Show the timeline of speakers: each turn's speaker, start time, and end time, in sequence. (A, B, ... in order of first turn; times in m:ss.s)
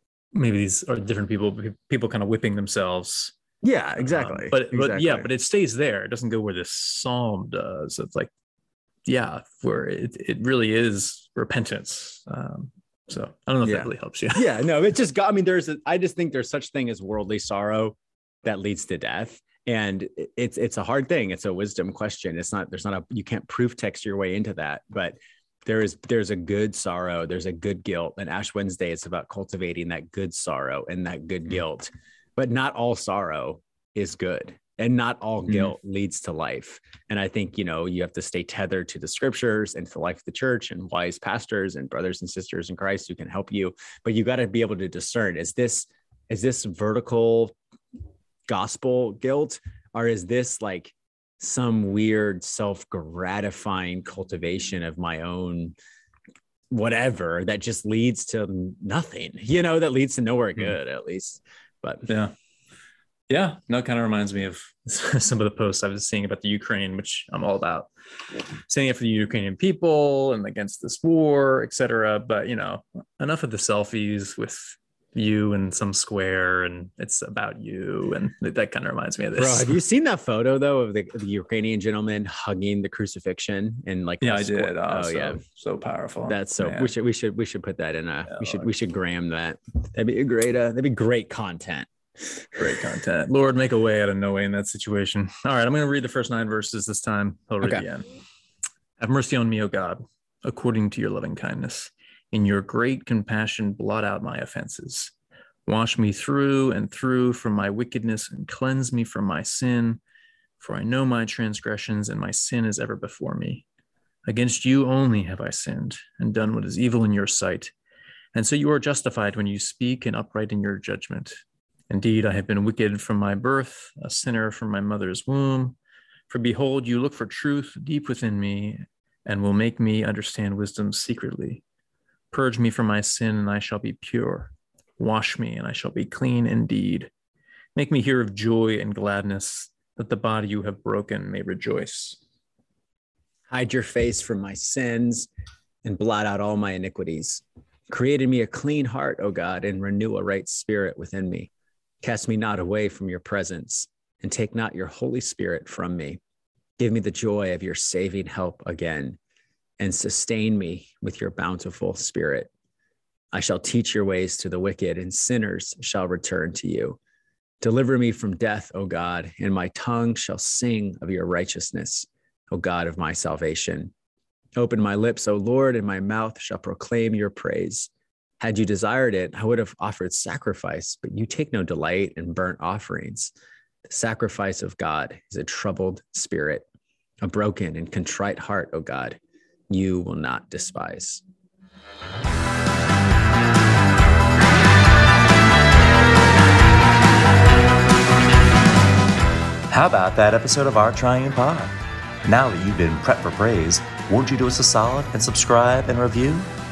0:00.3-0:03.3 A
0:03.6-0:05.3 B
0:04.0-0:08.3 A
0:09.1-0:14.6 A
0:13.6-0:47.6 B
0:48.5-0:55.8 B
0:56.7-1:02.1 B
1:02.1-1:02.3 A
1:03.3-1:07.9 A
1:08.7-1:19.8 A
1:19.4-1:25.4 B
1:24.2-1:26.9 A
1:26.3-1:31.9 B
1:28.3-1:28.7 A
1:32.6-1:38.1 A
1:39.0-1:45.1 A
1:45.7-1:50.0 A
1:50.6-1:53.6 A
1:54.3-1:57.7 A
1:58.3-2:01.4 A
2:01.9-2:05.8 A
2:06.3-2:11.6 A
2:12.3-2:17.1 A
2:17.8-2:22.2 A
2:23.5-2:25.3 B
2:25.8-2:31.5 B
2:32.0-2:36.2 B
2:36.8-2:39.2 B
2:39.8-2:42.5 B
2:43.3-2:47.0 B
2:47.6-2:53.9 B
2:54.6-3:03.3 B
3:03.9-3:06.6 B
3:07.2-3:09.2 B
3:09.7-3:11.2 B
3:19.7-3:26.5 C